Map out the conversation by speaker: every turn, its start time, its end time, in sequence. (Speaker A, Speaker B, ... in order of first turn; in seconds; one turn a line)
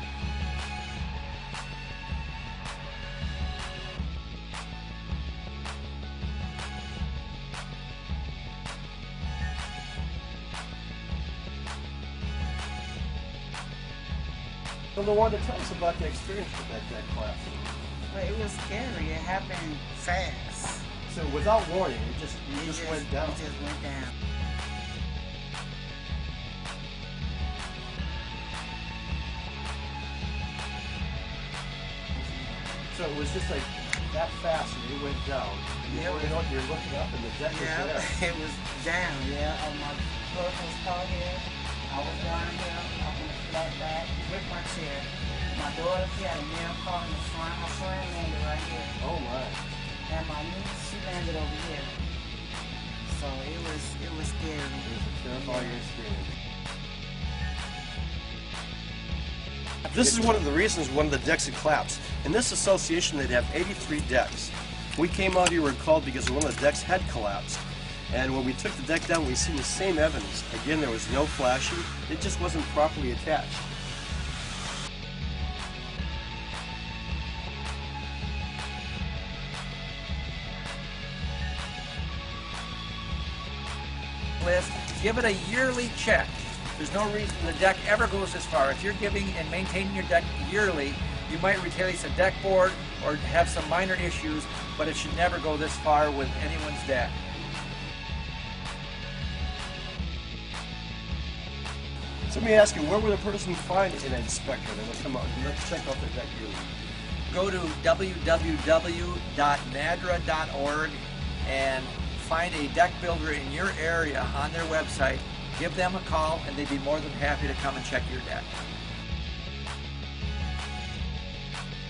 Speaker A: 14.9-17.6
Speaker B: 18.1-20.9
Speaker A: 21.1-23.4
Speaker B: 22.5-24.1
Speaker A: 32.9-38.1
Speaker B: 35.9-36.4
Speaker B: 37.5-49.0
Speaker A: 49.0-49.6
Speaker B: 50.1-51.9
Speaker B: 53.0-54.9
Speaker A: 54.8-56.3
Speaker B: 55.5-55.8
Speaker A: 59.9-73.6
Speaker C: 84.4-97.1
Speaker A: 102.3-106.7
Speaker C: 107.3-118.5